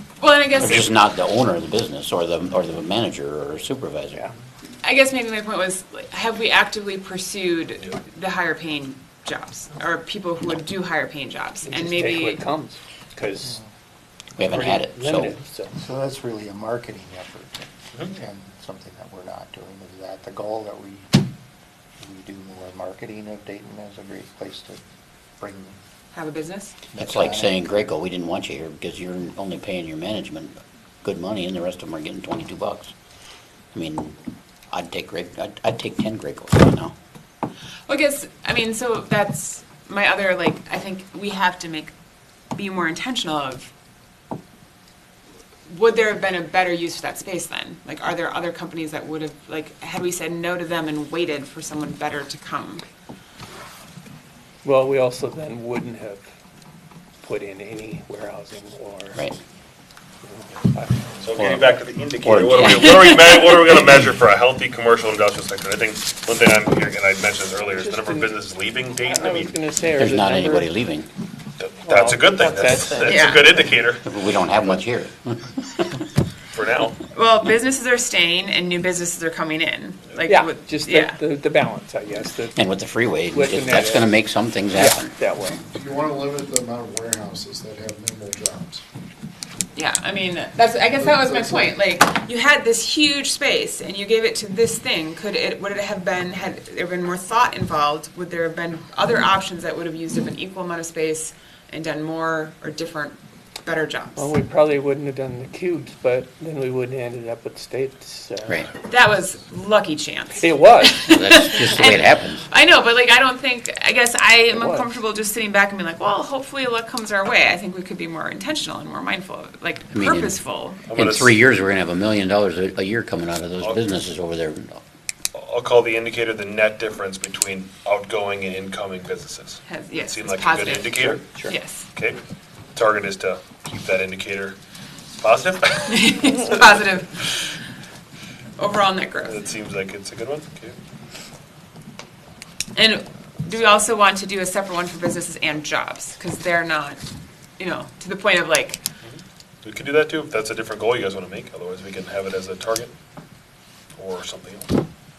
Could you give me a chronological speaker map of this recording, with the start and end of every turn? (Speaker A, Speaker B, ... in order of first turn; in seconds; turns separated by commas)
Speaker A: 0.2-0.9, Speaker B: 0.6-4.2, Speaker A: 4.8-12.4, Speaker C: 11.6-13.6, Speaker B: 14.4-15.3, Speaker C: 14.4-15.7, Speaker D: 15.8-21.1, Speaker D: 22.0-24.8, Speaker D: 25.4-25.8, Speaker A: 26.1-26.7, Speaker D: 26.9-27.6, Speaker B: 27.0-32.9, Speaker B: 33.7-34.2, Speaker B: 34.7-36.9, Speaker A: 37.9-41.9, Speaker A: 42.5-43.7, Speaker A: 45.7-52.9, Speaker C: 54.6-56.3, Speaker C: 57.2-59.3, Speaker C: 60.2-61.2, Speaker E: 61.2-69.6, Speaker B: 62.2-63.2, Speaker C: 67.7-68.3, Speaker C: 69.0-70.7, Speaker B: 70.0-71.1, Speaker E: 71.6-74.0, Speaker C: 71.8-73.3, Speaker A: 73.0-73.5, Speaker B: 74.0-76.0, Speaker E: 76.5-77.0, Speaker A: 77.0-81.2, Speaker C: 80.2-82.6, Speaker B: 82.5-85.1, Speaker C: 83.3-84.2, Speaker C: 84.7-85.6, Speaker F: 85.7-88.8, Speaker A: 89.7-104.3, Speaker F: 91.0-91.7, Speaker C: 104.2-108.7, Speaker A: 108.9-120.8, Speaker C: 110.4-111.2, Speaker B: 111.1-112.4, Speaker C: 114.5-114.9, Speaker B: 119.9-120.4, Speaker E: 120.9-121.3, Speaker B: 120.9-124.8, Speaker E: 123.6-124.0, Speaker E: 125.3-131.3, Speaker A: 129.7-131.8, Speaker C: 131.2-131.6, Speaker E: 131.9-132.2, Speaker E: 132.7-134.6, Speaker E: 135.2-136.4, Speaker A: 135.9-137.6, Speaker A: 138.6-139.4, Speaker E: 139.2-140.8, Speaker A: 142.8-147.0, Speaker A: 147.6-148.8, Speaker E: 149.0-152.9, Speaker E: 153.9-154.7